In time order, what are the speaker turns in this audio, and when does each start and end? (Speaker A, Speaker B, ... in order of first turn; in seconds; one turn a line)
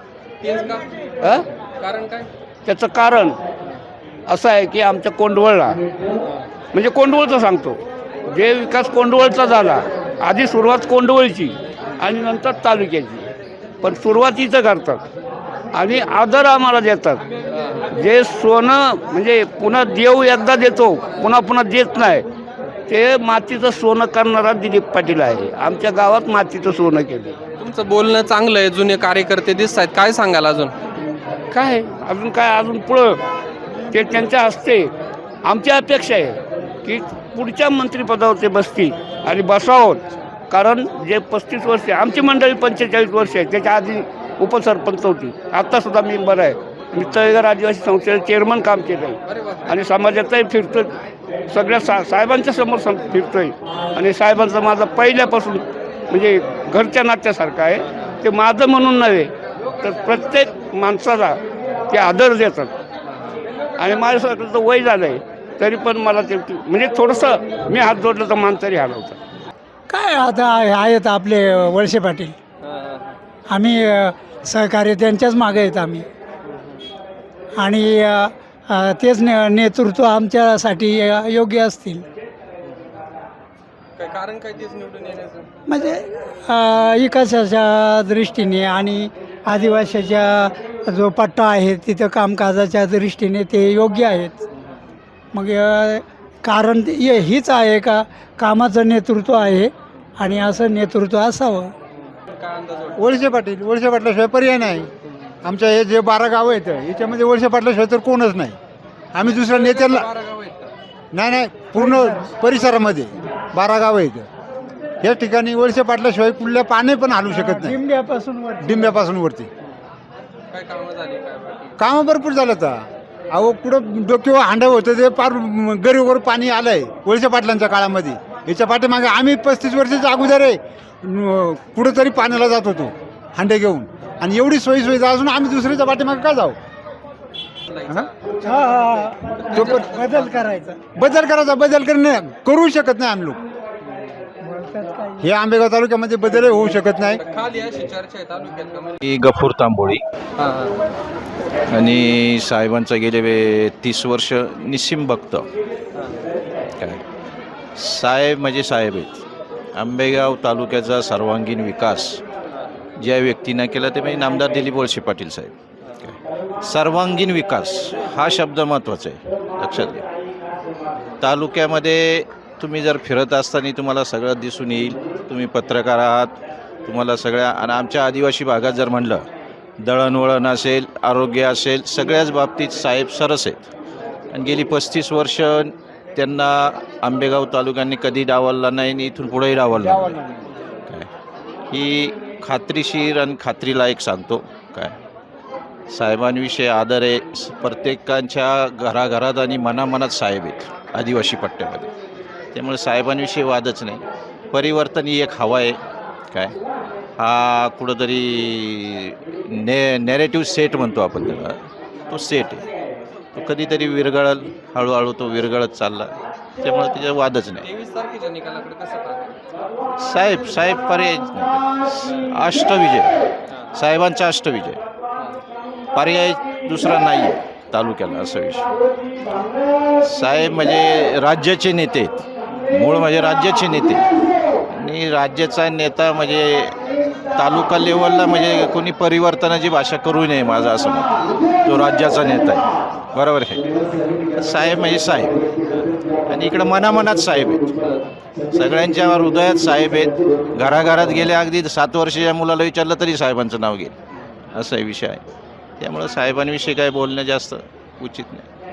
Speaker A: 0.4-2.3
Speaker B: 2.7-3.4
Speaker B: 4.3-5.8
Speaker A: 6.2-6.5
Speaker B: 6.7-7.8
Speaker B: 8.3-13.3
Speaker B: 13.8-15.0
Speaker B: 15.8-17.2
Speaker A: 17.5-18.0
Speaker B: 17.9-22.2
Speaker A: 21.1-21.4
Speaker B: 22.9-27.4
Speaker A: 27.6-30.7
Speaker B: 31.5-33.2
Speaker B: 33.9-34.9
Speaker B: 35.5-40.0
Speaker B: 40.5-50.9
Speaker A: 49.3-49.9
Speaker B: 51.5-59.3
Speaker A: 57.8-58.1
Speaker B: 59.8-61.4
Speaker B: 61.9-62.7
Speaker A: 63.1-63.4
Speaker B: 63.8-69.2
Speaker C: 69.9-72.3
Speaker A: 72.6-73.2
Speaker C: 73.5-76.1
Speaker A: 76.5-76.8
Speaker C: 77.6-82.0
Speaker A: 82.7-83.0
Speaker A: 84.0-85.5
Speaker C: 85.7-94.4
Speaker C: 95.3-101.7
Speaker A: 101.9-103.2
Speaker D: 103.0-104.9
Speaker A: 105.0-105.4
Speaker D: 105.4-108.6
Speaker D: 109.1-110.1
Speaker A: 109.2-110.7
Speaker D: 111.1-114.3
Speaker C: 111.7-112.3
Speaker D: 115.0-117.8
Speaker C: 117.3-119.0
Speaker D: 118.6-119.5
Speaker A: 120.5-121.8
Speaker D: 121.8-136.6
Speaker A: 137.7-140.6
Speaker C: 138.4-140.8
Speaker D: 139.5-139.8
Speaker D: 140.9-143.4
Speaker C: 144.4-145.3
Speaker D: 145.2-147.2
Speaker A: 147.1-149.0
Speaker E: 149.0-150.0
Speaker A: 150.4-150.8
Speaker E: 151.7-155.5
Speaker A: 155.9-156.3
Speaker E: 157.8-159.2
Speaker E: 159.8-162.2
Speaker E: 163.0-170.0
Speaker E: 171.2-179.2
Speaker E: 179.8-183.7
Speaker E: 184.3-190.2
Speaker D: 189.7-190.5
Speaker E: 191.7-194.9
Speaker E: 195.9-201.9
Speaker E: 202.5-205.8
Speaker E: 207.2-211.6
Speaker E: 212.1-212.6
Speaker E: 213.3-216.1
Speaker E: 216.6-217.7
Speaker A: 217.6-219.4
Speaker E: 220.0-223.1
Speaker A: 223.5-223.8
Speaker E: 223.8-224.8
Speaker E: 225.9-228.7
Speaker E: 230.0-234.1
Speaker E: 234.7-236.7
Speaker E: 237.4-241.1
Speaker E: 241.7-243.6
Speaker E: 244.4-247.9
Speaker E: 248.5-253.9
Speaker E: 254.5-255.2
Speaker E: 255.8-258.5